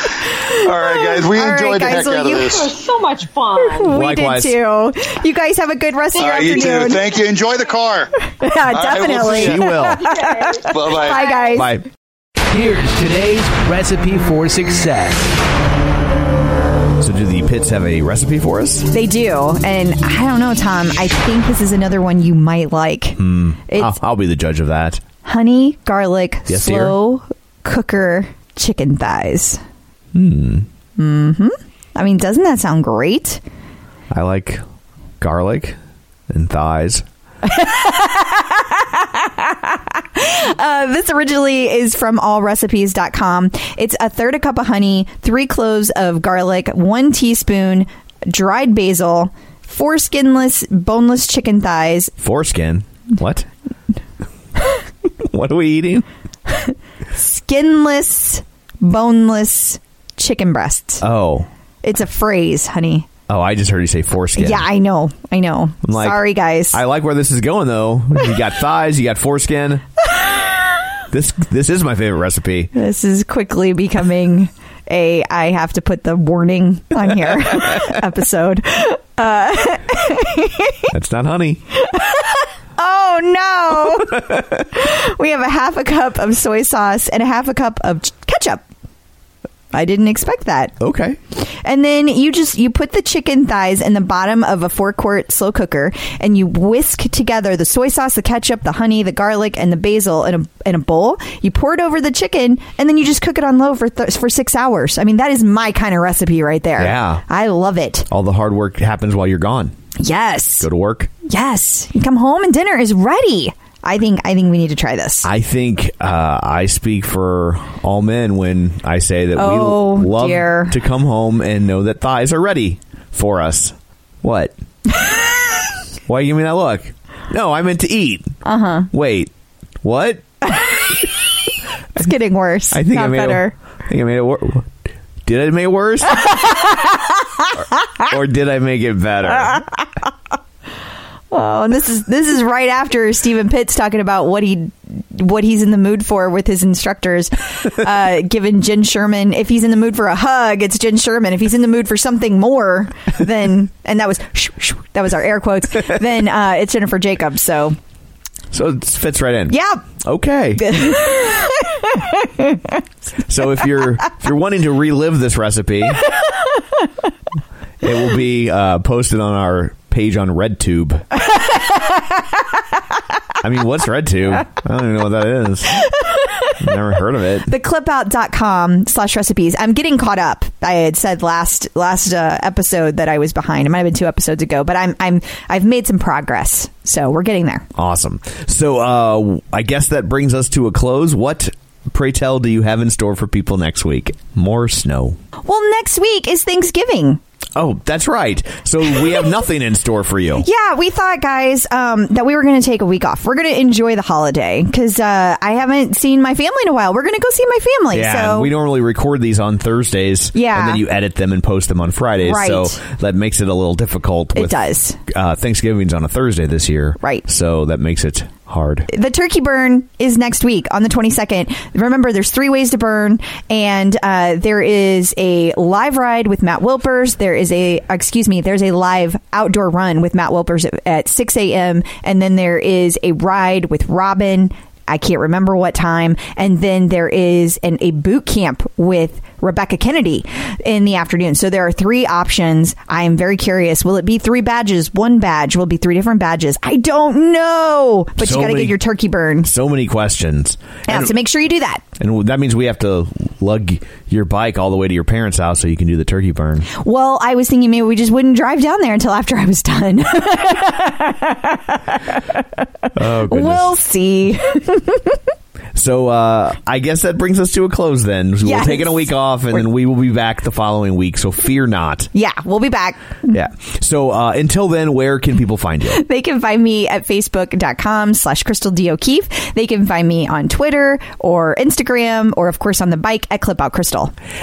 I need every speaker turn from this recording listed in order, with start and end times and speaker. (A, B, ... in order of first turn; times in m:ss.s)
0:00.3-0:02.5 A
0:00.5-0:02.7 B
0:02.4-0:03.9 C
0:03.6-0:07.0 A
0:03.9-0:04.6 D
0:06.2-0:06.9 C
0:06.2-0:08.1 B
0:08.2-0:11.8 A
0:08.7-0:09.7 B
0:09.3-0:10.1 D
0:10.0-0:11.5 C
0:10.7-0:11.3 B
0:11.5-0:11.8 D
0:12.5-0:15.3 E
0:17.0-0:18.9 D
0:18.9-0:24.0 A
0:23.2-0:25.0 D
0:25.2-0:29.6 A
0:26.5-0:27.0 D
0:30.1-0:30.7 D
0:31.0-0:33.4 A
0:34.1-0:34.6 D
0:35.2-0:35.8 D
0:36.3-0:37.0 D
0:37.4-0:52.1 A
0:52.2-0:53.5 D
0:55.2-0:56.0 D
0:56.5-1:01.0 A
1:01.0-1:01.5 D
1:01.8-1:03.1 A
1:03.3-1:04.7 D
1:04.4-1:06.8 A
1:05.8-1:09.8 D
1:11.1-1:12.7 D
1:12.7-1:20.9 A
1:20.9-1:21.6 D
1:21.8-1:28.6 A
1:24.0-1:24.4 D
1:29.7-1:30.8 A
1:30.8-1:31.2 D
1:31.5-1:48.1 A
1:46.8-1:47.2 D
1:48.1-1:49.7 D
1:50.0-1:50.7 A
1:50.6-1:51.1 D
1:51.2-1:55.3 A
1:55.2-2:04.5 D
1:59.4-2:00.8 A
2:06.0-2:08.4 D
2:08.4-2:08.9 A
2:08.9-2:09.3 D
2:09.8-2:10.2 D
2:12.0-2:13.5 A
2:12.7-2:14.7 D
2:15.2-2:16.4 D
2:16.2-2:16.9 A
2:18.0-2:19.6 D
2:21.3-2:37.8 A
2:38.5-2:40.7 D
2:39.5-2:39.8 A
2:40.6-2:42.7 A
2:43.3-2:46.0 D
2:47.8-2:51.1 D
2:53.4-2:55.9 D
2:56.0-2:56.5 A
2:56.6-2:57.5 D
2:57.5-3:07.7 A
3:07.7-3:15.2 D
3:15.4-3:17.2 A
3:17.6-3:20.4 D
3:20.4-3:28.5 A
3:27.9-3:34.5 D
3:30.3-3:30.8 A
3:32.2-3:32.8 A
3:34.3-3:35.0 A
3:35.1-3:38.9 D
3:38.9-4:09.5 A
4:08.2-4:08.8 D
4:09.4-4:11.1 D
4:10.9-4:11.8 A
4:12.0-4:16.7 D
4:16.7-4:25.2 A
4:23.0-4:23.7 D
4:25.7-4:32.1 D
4:28.4-4:29.1 A
4:32.1-4:33.3 A
4:33.3-4:36.0 D
4:35.9-4:44.1 A